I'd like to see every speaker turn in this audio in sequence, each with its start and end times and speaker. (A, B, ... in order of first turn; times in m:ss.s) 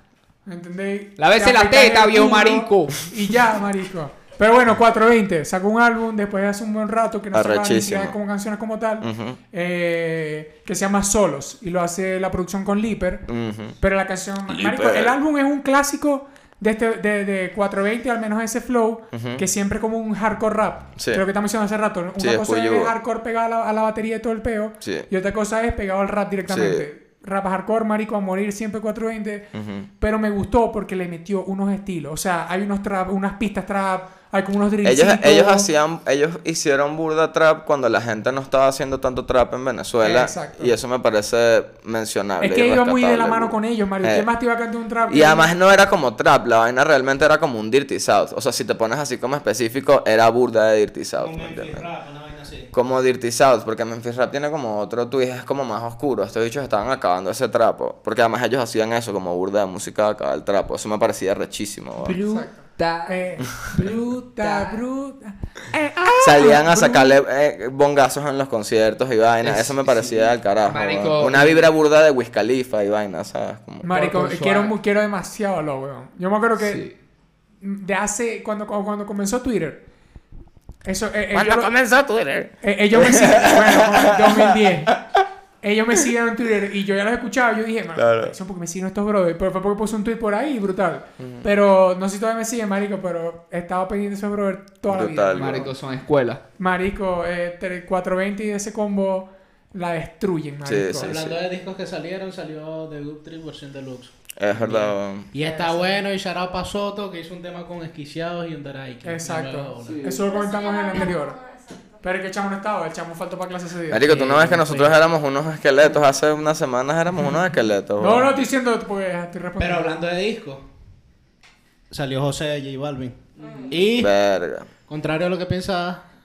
0:00.5-0:13.3 A
0:01.2-0:03.1 B
0:07.3-0:08.2 C
0:09.0-0:09.4 C
0:13.3-0:13.8 C
0:13.8-0:29.5 A
0:14.5-0:15.2 C
0:19.1-0:19.4 C
0:21.0-0:21.2 C
0:22.2-0:22.9 C
0:24.8-0:25.1 C
0:26.5-0:26.8 C
0:29.5-0:29.9 C
0:30.0-0:35.7 A
0:34.8-0:44.3 C
0:40.0-0:40.7 A
0:42.4-0:45.5 A
0:45.1-0:51.9 C
0:51.2-0:52.7 D
0:52.7-1:02.2 C
1:02.0-1:04.8 B
1:02.2-1:07.1 A
1:03.6-1:03.9 C
1:06.2-1:13.9 C
1:09.4-1:11.7 B
1:13.8-1:16.9 A
1:13.9-1:14.7 B
1:16.6-1:16.9 B
1:17.6-1:19.8 A
1:20.8-1:21.8 A
1:21.3-1:25.2 C
1:22.6-1:25.0 A
1:25.6-1:35.7 A
1:28.0-1:28.4 C
1:31.2-1:31.5 C
1:34.9-1:35.7 C
1:35.4-1:36.4 B
1:36.6-1:41.1 A
1:40.6-1:41.4 C
1:41.0-1:50.2 D
1:44.4-1:45.3 C
1:49.0-1:51.4 A
1:49.8-1:50.2 B
1:50.2-1:51.9 E
1:52.0-1:54.9 A
1:53.9-1:58.3 C
1:54.1-1:54.8 B
1:58.0-2:00.0 A
1:59.6-2:00.7 D
2:01.9-2:04.1 D
2:03.4-2:03.7 B
2:03.4-2:03.7 E
2:04.0-2:04.7 C
2:04.9-2:06.0 D